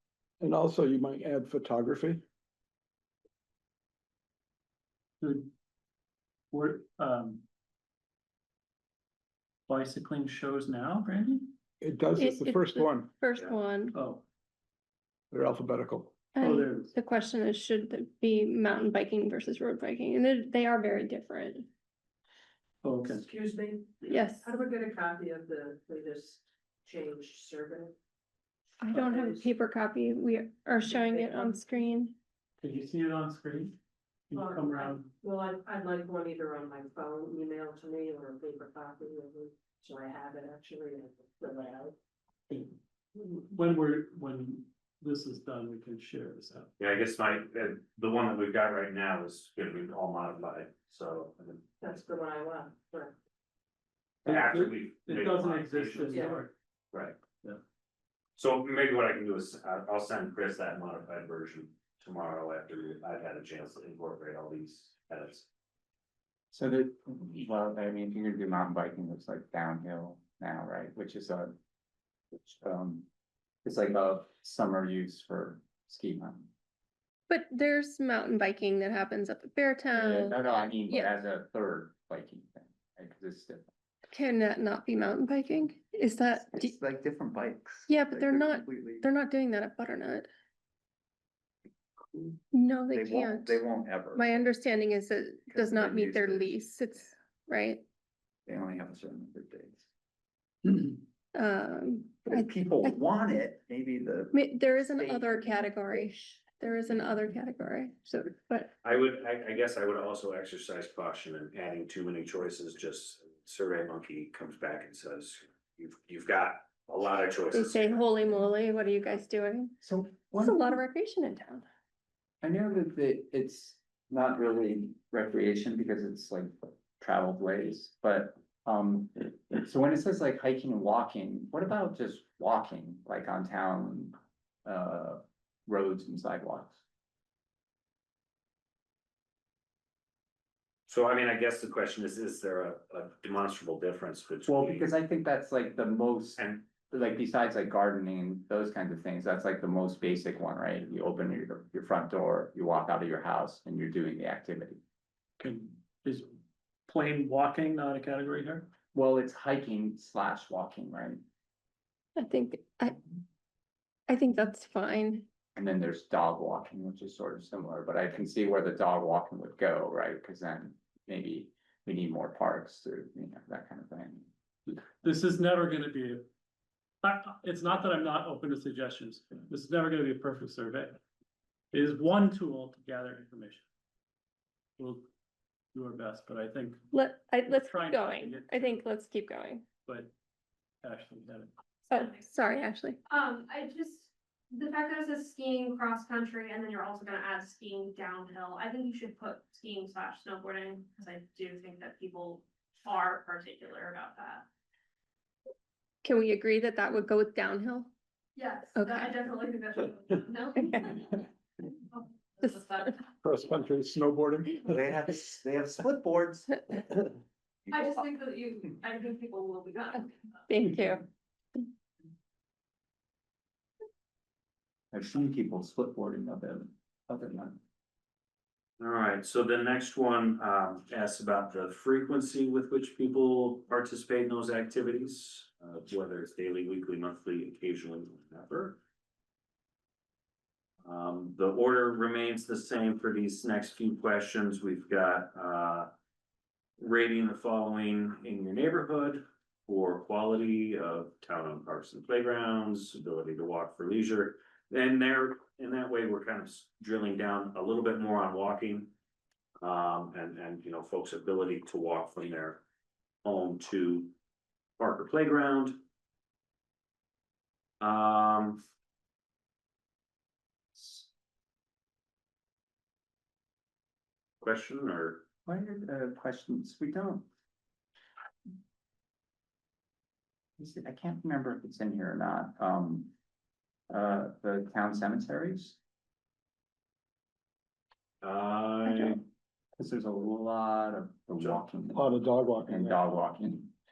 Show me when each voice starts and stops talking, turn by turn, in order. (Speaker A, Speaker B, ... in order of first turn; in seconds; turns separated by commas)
Speaker A: 0.4-2.2, Speaker B: 5.2-5.5, Speaker B: 6.5-7.4, Speaker B: 9.7-11.5, Speaker A: 11.8-13.1, Speaker C: 12.2-13.9, Speaker B: 13.9-14.2, Speaker A: 15.3-16.2, Speaker C: 16.3-21.7, Speaker B: 16.4-16.9, Speaker B: 22.8-23.2, Speaker D: 23.1-27.9, Speaker C: 24.1-24.5, Speaker C: 28.8-32.1, Speaker D: 28.9-29.5, Speaker D: 30.8-31.6, Speaker B: 32.6-33.8, Speaker B: 34.3-35.1, Speaker D: 34.3-41.9, Speaker B: 42.5-46.7, Speaker E: 46.8-51.6, Speaker D: 51.8-53.1, Speaker E: 54.2-56.2, Speaker B: 54.2-56.5, Speaker D: 56.1-56.4, Speaker E: 56.9-57.2, Speaker E: 58.4-65.5, Speaker F: 66.5-71.5, Speaker F: 72.3-73.1, Speaker F: 73.6-76.5, Speaker C: 77.3-81.1, Speaker F: 79.9-83.7, Speaker C: 84.1-86.7, Speaker F: 86.5-89.1, Speaker C: 87.9-90.3, Speaker F: 92.1-92.4, Speaker C: 92.5-93.6, Speaker F: 92.9-94.3, Speaker C: 94.1-97.8, Speaker F: 95.5-96.6, Speaker F: 98.5-99.9, Speaker C: 101.3-103.0, Speaker F: 102.2-105.5, Speaker C: 104.3-108.7, Speaker E: 108.8-118.0, Speaker C: 117.5-119.8, Speaker F: 119.8-120.8, Speaker C: 120.3-121.7, Speaker F: 122.4-136.8, Speaker E: 140.9-144.9, Speaker F: 144.5-154.8, Speaker B: 155.4-156.3, Speaker B: 156.9-158.7, Speaker F: 158.9-161.2, Speaker C: 162.2-163.0, Speaker C: 164.1-165.2, Speaker F: 165.6-174.3, Speaker B: 174.7-176.3, Speaker B: 177.0-181.0, Speaker B: 181.7-183.6, Speaker B: 184.8-185.1, Speaker B: 185.7-186.8, Speaker C: 186.9-189.6, Speaker B: 187.4-188.7, Speaker B: 189.8-190.1, Speaker B: 190.8-191.5, Speaker G: 191.9-192.3, Speaker C: 191.9-193.0, Speaker G: 193.1-204.4, Speaker C: 206.0-207.9, Speaker G: 208.3-213.1, Speaker C: 208.7-209.1, Speaker A: 213.2-214.8, Speaker F: 214.7-216.7, Speaker G: 217.7-220.4, Speaker C: 220.5-221.1, Speaker F: 224.9-227.6, Speaker E: 228.8-238.8, Speaker E: 240.8-245.9, Speaker E: 246.8-258.9, Speaker E: 259.6-262.6, Speaker E: 263.2-264.1, Speaker E: 264.8-265.8, Speaker E: 267.8-268.6, Speaker F: 270.7-271.1, Speaker E: 274.4-275.2, Speaker F: 275.4-277.3, Speaker F: 280.6-283.1, Speaker F: 283.9-285.8, Speaker E: 288.2-289.2, Speaker F: 289.8-293.7, Speaker A: 291.9-293.0